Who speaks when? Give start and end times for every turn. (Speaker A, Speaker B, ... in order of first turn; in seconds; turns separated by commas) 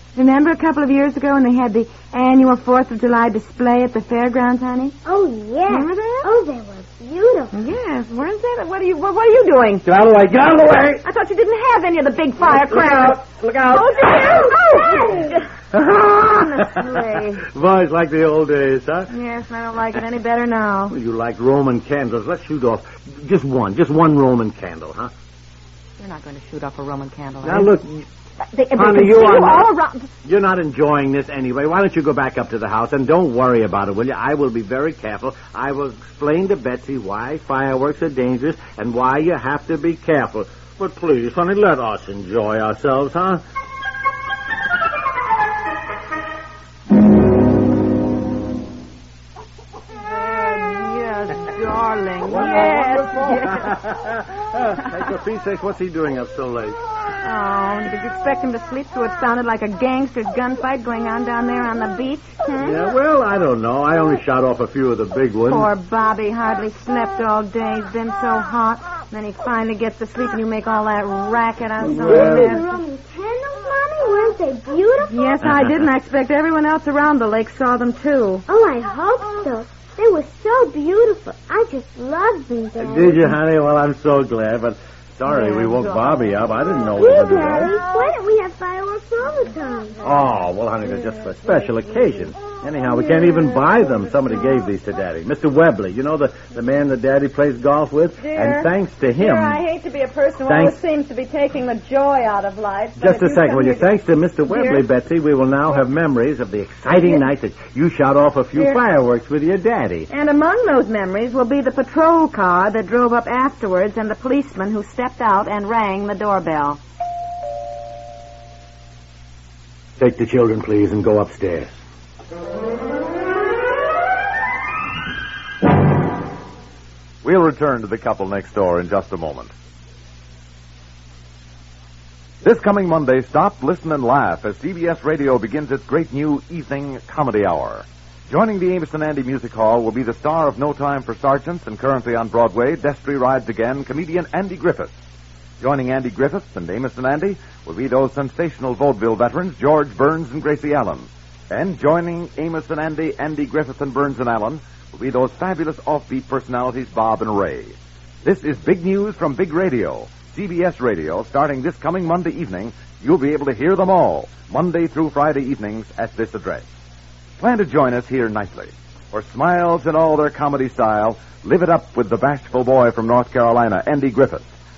Speaker A: 0.1-5.0, Speaker B: 5.0-7.5, Speaker A: 5.7-6.3, Speaker A: 7.5-9.9, Speaker C: 9.9-11.0, Speaker A: 11.0-15.4, Speaker C: 12.8-14.0, Speaker C: 15.7-19.1, Speaker A: 16.2-17.4, Speaker A: 19.1-21.0, Speaker C: 20.9-25.1, Speaker A: 26.0-27.7, Speaker C: 27.4-28.1, Speaker A: 28.4-30.1, Speaker C: 28.8-29.7, Speaker C: 30.2-43.4, Speaker A: 50.0-53.8, Speaker C: 52.3-56.8, Speaker A: 57.2-62.5, Speaker C: 62.6-65.7, Speaker A: 65.5-72.7, Speaker C: 72.0-72.6, Speaker B: 72.0-75.4, Speaker A: 75.0-78.4, Speaker B: 78.5-83.4, Speaker C: 82.8-87.7, Speaker A: 85.3-86.2, Speaker B: 87.0-90.1, Speaker C: 90.0-99.6, Speaker A: 98.2-103.9, Speaker C: 100.5-100.8, Speaker C: 103.0-110.1, Speaker A: 104.5-104.8, Speaker A: 108.5-108.8, Speaker A: 110.1-116.8, Speaker C: 120.0-121.8, Speaker D: 127.2-129.5, Speaker D: 132.4-144.9, Speaker D: 145.6-166.7, Speaker D: 167.4-174.5